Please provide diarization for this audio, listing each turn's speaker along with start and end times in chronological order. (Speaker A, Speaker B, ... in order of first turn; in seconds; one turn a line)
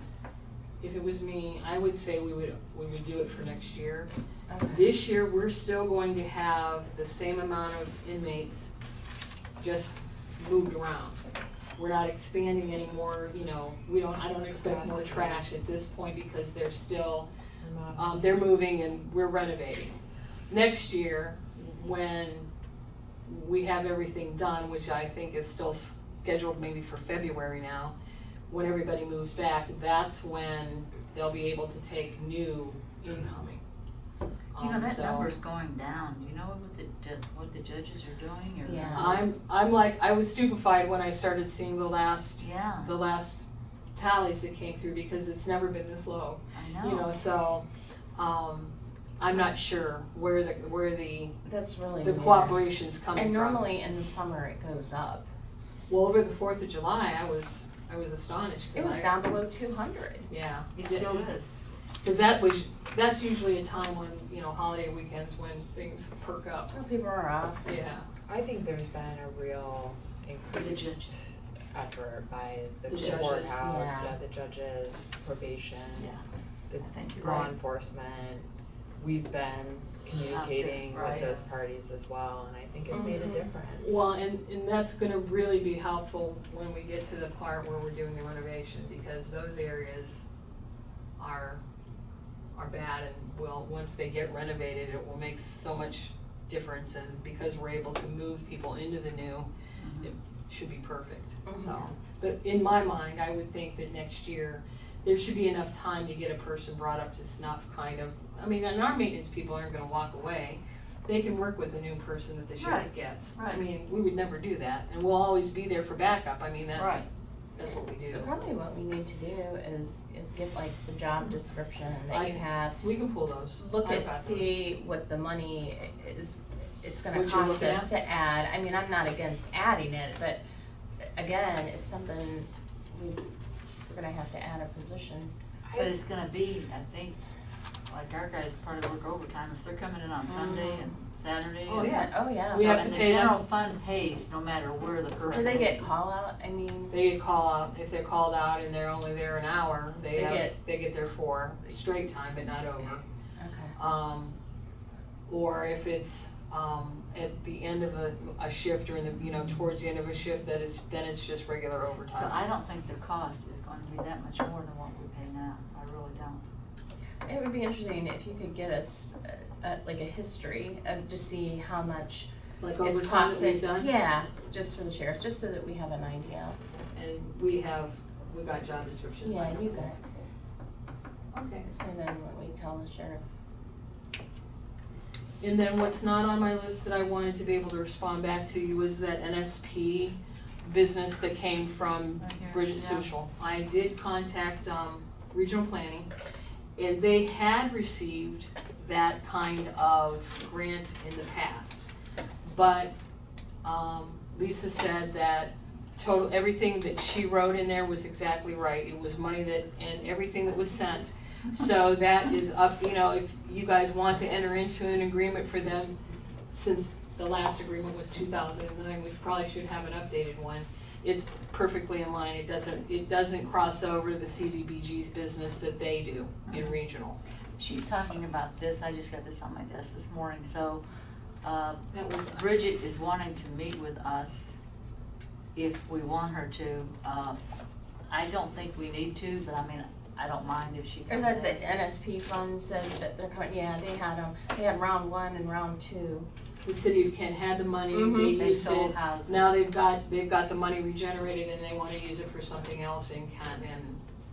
Speaker A: 0.8-4.1
Speaker B: 4.5-4.9
Speaker A: 4.7-8.7
Speaker A: 9.6-11.2
Speaker A: 11.8-17.3
Speaker C: 14.5-15.4
Speaker C: 17.6-18.5
Speaker A: 17.9-19.9
Speaker A: 20.5-22.5
Speaker A: 23.2-27.9
Speaker A: 28.5-33.6
Speaker A: 34.5-35.3
Speaker D: 34.6-39.2
Speaker B: 38.6-39.2
Speaker A: 38.9-47.6
Speaker D: 42.4-42.9
Speaker D: 46.5-47.1
Speaker A: 48.1-51.3
Speaker B: 51.5-55.3
Speaker A: 52.0-53.7
Speaker A: 55.9-59.2
Speaker B: 58.7-60.3
Speaker A: 60.3-61.3
Speaker D: 60.7-61.5
Speaker A: 62.0-66.8
Speaker B: 66.7-67.8
Speaker A: 67.7-68.0
Speaker C: 68.3-76.2
Speaker D: 70.6-71.1
Speaker A: 72.9-73.6
Speaker D: 72.9-73.5
Speaker B: 73.5-74.1
Speaker C: 76.7-78.5
Speaker D: 76.8-77.5
Speaker C: 79.0-84.1
Speaker D: 80.2-81.4
Speaker B: 82.9-83.5
Speaker A: 83.8-90.2
Speaker A: 91.2-91.6
Speaker A: 92.5-99.5
Speaker D: 99.8-100.1
Speaker A: 100.0-118.4
Speaker B: 101.5-101.9
Speaker D: 112.6-113.6
Speaker D: 116.7-117.0
Speaker B: 118.1-122.8
Speaker A: 122.1-124.5
Speaker B: 123.6-130.4
Speaker A: 127.1-127.9
Speaker B: 131.1-133.3
Speaker B: 133.9-135.3
Speaker C: 135.7-135.9
Speaker D: 135.7-137.2
Speaker D: 137.9-141.9
Speaker B: 140.2-140.9
Speaker A: 141.7-143.3
Speaker B: 141.8-142.9
Speaker D: 142.5-145.9
Speaker B: 145.3-147.0
Speaker A: 146.9-153.0
Speaker B: 150.1-150.5
Speaker B: 153.4-153.8
Speaker A: 153.8-154.3
Speaker A: 155.3-162.4
Speaker D: 162.1-166.4
Speaker B: 167.2-172.3
Speaker A: 172.6-173.9
Speaker B: 172.8-176.6
Speaker A: 176.9-179.9
Speaker B: 179.2-180.0
Speaker A: 181.3-181.7
Speaker B: 181.6-183.2
Speaker A: 185.4-196.1
Speaker D: 192.2-193.1
Speaker A: 196.8-201.9
Speaker A: 202.4-202.9
Speaker A: 203.6-215.9
Speaker A: 216.5-227.2
Speaker D: 226.5-226.8
Speaker D: 227.6-230.8
Speaker D: 231.4-234.6
Speaker A: 231.9-232.5
Speaker D: 235.5-237.4
Speaker D: 238.1-241.8
Speaker B: 241.1-246.3
Speaker A: 246.6-254.0
Speaker B: 247.9-248.3
Speaker D: 248.3-249.6